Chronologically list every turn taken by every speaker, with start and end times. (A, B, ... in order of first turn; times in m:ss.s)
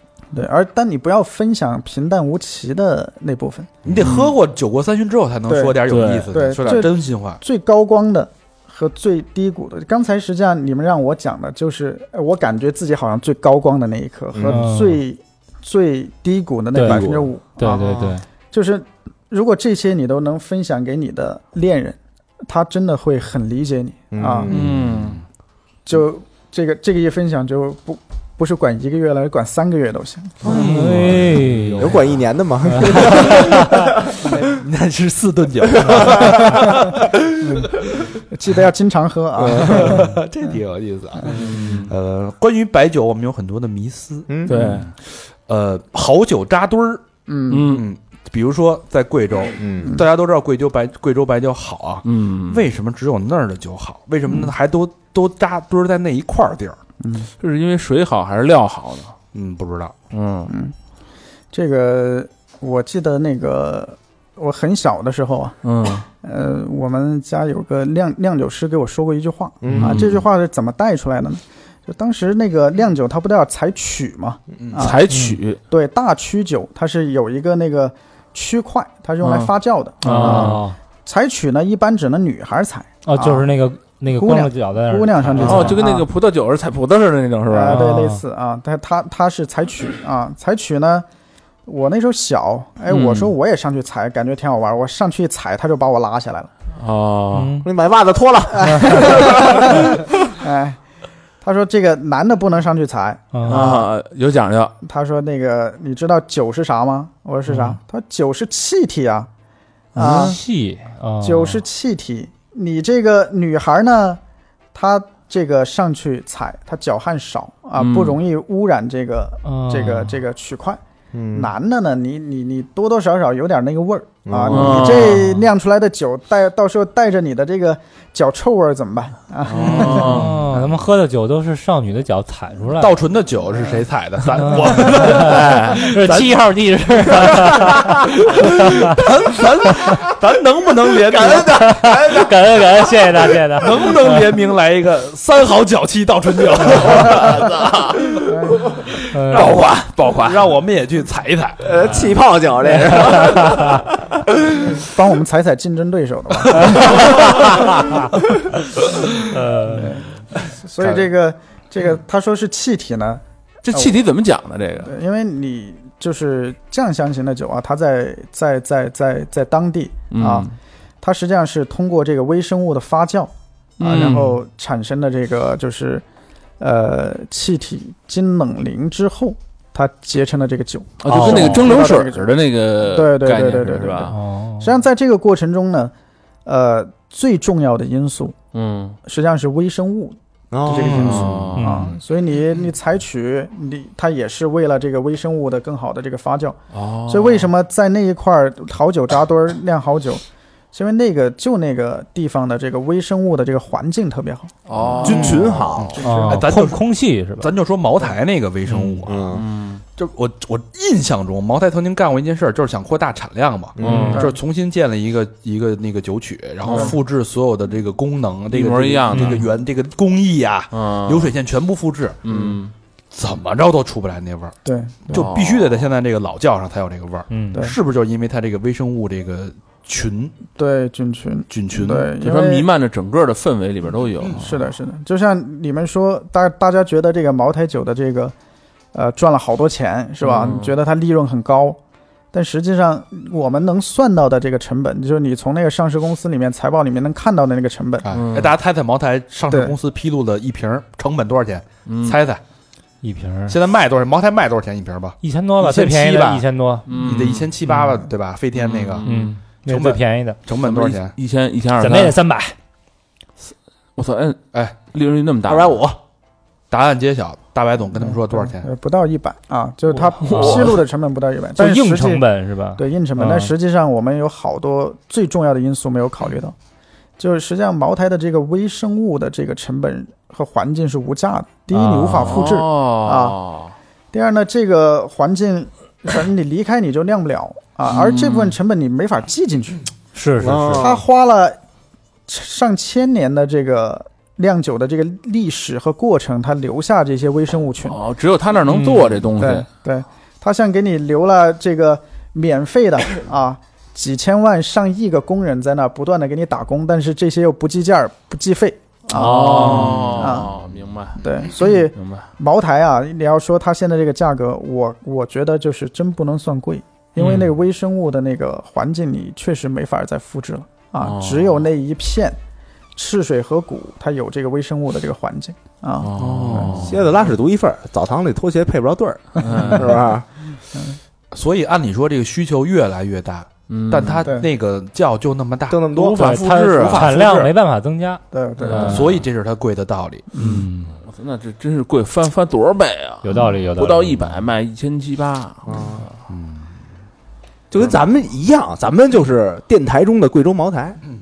0:00.3-0:03.8 A
0:03.8-0:04.1 B
0:03.9-0:07.4 C
0:04.0-0:04.3 D
0:05.5-0:24.5 A
0:05.9-0:06.3 D
0:14.3-0:14.6 B
0:14.4-0:15.0 E
0:16.7-0:17.0 E
0:16.8-0:17.3 B
0:17.6-0:18.2 E
0:24.1-0:24.8 B
0:24.5-0:25.2 D
0:24.8-0:25.2 C
0:25.8-0:30.5 A
0:30.4-0:32.0 C
0:30.4-0:34.4 B
0:30.5-0:32.0 E
0:32.7-0:33.8 E
0:33.2-0:33.6 C
0:34.2-0:38.1 C
0:35.9-0:36.1 B
0:37.4-0:40.2 A
0:39.4-0:40.0 B
0:39.6-0:45.0 C
0:41.2-0:41.9 D
0:44.3-0:44.6 B
0:44.5-0:44.9 D
0:45.5-0:47.1 C
0:47.3-0:47.8 A
0:47.5-0:47.8 D
0:47.7-0:56.8 C
0:49.6-0:50.0 B
0:52.0-0:52.6 D
0:57.0-0:57.3 A
0:57.4-0:59.2 D
0:59.3-1:00.0 C
1:00.1-1:00.5 D
1:00.5-1:00.7 A
1:01.5-1:05.6 A
1:05.6-1:06.0 D
1:06.2-1:15.1 A
1:09.6-1:10.2 B
1:09.7-1:10.0 D
1:14.6-1:14.9 C
1:14.8-1:15.6 D
1:15.1-1:15.4 E
1:15.7-1:23.5 A
1:19.2-1:20.6 D
1:20.0-1:20.8 E
1:23.0-1:25.8 E
1:24.2-1:26.1 A
1:25.4-1:27.8 D
1:27.5-1:31.1 A
1:27.7-1:28.2 E
1:31.7-1:36.5 A
1:32.9-1:33.3 D
1:36.8-1:37.6 D
1:37.3-1:37.7 E
1:37.6-1:40.0 B
1:38.6-1:40.8 A
1:41.4-1:43.9 A
1:43.3-1:43.7 E
1:43.5-1:44.8 D
1:44.8-1:49.3 A
1:47.5-1:47.8 E
1:50.0-1:50.4 A
1:50.0-1:51.6 E
1:51.2-1:54.2 A
1:54.7-2:00.8 A
1:57.8-1:58.2 D
1:59.4-2:00.2 E
2:01.1-2:01.5 B
2:01.3-2:10.6 A
2:04.3-2:05.2 B
2:04.5-2:05.4 D
2:09.5-2:10.4 D
2:09.6-2:10.2 C
2:09.9-2:13.0 E
2:12.8-2:16.4 C
2:14.3-2:19.0 E
2:15.1-2:15.9 D
2:17.0-2:21.8 C
2:21.1-2:22.5 B
2:21.4-2:24.4 E
2:23.6-2:31.9 C
2:27.0-2:27.8 B
2:28.3-2:28.7 A
2:29.1-2:29.6 E
2:31.6-2:34.2 B
2:33.0-2:33.8 E
2:34.7-2:38.2 A
2:36.7-2:37.7 B
2:39.3-2:40.0 E
2:39.7-2:43.2 A
2:40.8-2:41.1 C
2:43.6-2:44.9 D
2:43.7-2:44.0 A
2:44.8-2:50.5 A
2:50.1-2:50.5 D
2:51.0-2:56.0 A
2:53.8-2:54.4 D
2:56.6-3:02.3 A
3:01.0-3:04.1 D
3:01.1-3:01.6 E
3:02.8-3:05.9 A
3:04.1-3:04.7 E
3:06.4-3:08.4 A
3:08.5-3:09.0 D
3:09.1-3:24.5 A
3:10.5-3:11.6 B
3:10.8-3:11.8 D
3:10.9-3:11.2 C
3:11.6-3:11.9 E
3:16.7-3:17.5 D
3:24.7-3:26.0 D
3:25.0-3:29.4 C
3:25.0-3:26.0 B
3:26.0-3:26.3 A
3:26.0-3:27.5 E
3:28.7-3:29.8 D
3:29.1-3:29.4 B
3:30.0-3:42.2 C
3:33.8-3:34.2 B
3:33.8-3:34.3 D
3:33.8-3:34.2 E
3:34.1-3:34.4 A
3:36.6-3:37.0 D
3:38.5-3:39.5 D
3:39.2-3:39.4 E
3:40.7-3:41.3 D
3:42.2-3:42.7 D
3:43.1-3:44.6 C
3:44.6-3:45.2 A
3:45.1-3:45.9 D
3:45.1-3:50.4 C
3:47.3-3:47.6 E
3:50.6-3:52.7 A
3:51.5-3:52.1 C
3:52.1-3:54.6 D
3:54.4-3:58.4 A
3:58.9-4:01.8 A
4:00.2-4:00.8 D
4:02.3-4:08.1 A
4:08.0-4:12.4 C
4:08.1-4:08.6 D
4:09.5-4:09.8 A
4:11.9-4:12.2 D
4:13.0-4:13.6 E
4:13.5-4:19.1 C
4:15.2-4:16.9 E
4:16.9-4:17.6 D
4:18.5-4:19.4 D
4:19.0-4:20.4 E
4:19.7-4:21.2 C
4:20.6-4:22.2 D
4:21.8-4:22.6 E
4:23.5-4:25.8 D
4:25.5-4:26.0 B
4:26.7-4:28.7 C
4:28.4-4:36.6 A
4:30.2-4:30.8 E
4:30.3-4:30.6 D
4:31.6-4:33.5 E
4:37.2-4:43.4 A
4:41.7-4:42.5 E
4:42.1-4:43.8 D
4:44.1-4:49.9 A
4:47.9-4:48.6 D
4:50.1-4:50.8 E
4:50.4-4:51.0 B
4:50.8-4:51.6 A
4:52.3-4:58.0 A
4:57.8-4:59.7 D
4:58.7-4:59.2 E
4:59.4-5:10.5 A
5:09.1-5:12.3 D
5:09.3-5:10.0 E
5:09.6-5:10.2 C
5:11.2-5:22.4 A
5:21.0-5:21.7 D
5:23.0-5:26.1 A
5:26.0-5:27.0 D
5:26.2-5:27.0 C
5:26.8-5:30.3 B
5:29.4-5:30.0 D
5:31.3-5:37.5 C
5:33.7-5:34.3 D
5:35.7-5:36.2 B
5:36.0-5:37.2 D
5:36.2-5:39.0 E
5:38.3-5:39.1 A
5:38.6-5:39.1 D
5:38.7-5:40.7 C
5:40.4-5:40.9 E
5:41.0-5:46.0 D
5:43.2-5:44.2 E
5:45.7-5:46.0 B
5:46.3-5:46.6 C
5:47.7-5:51.0 B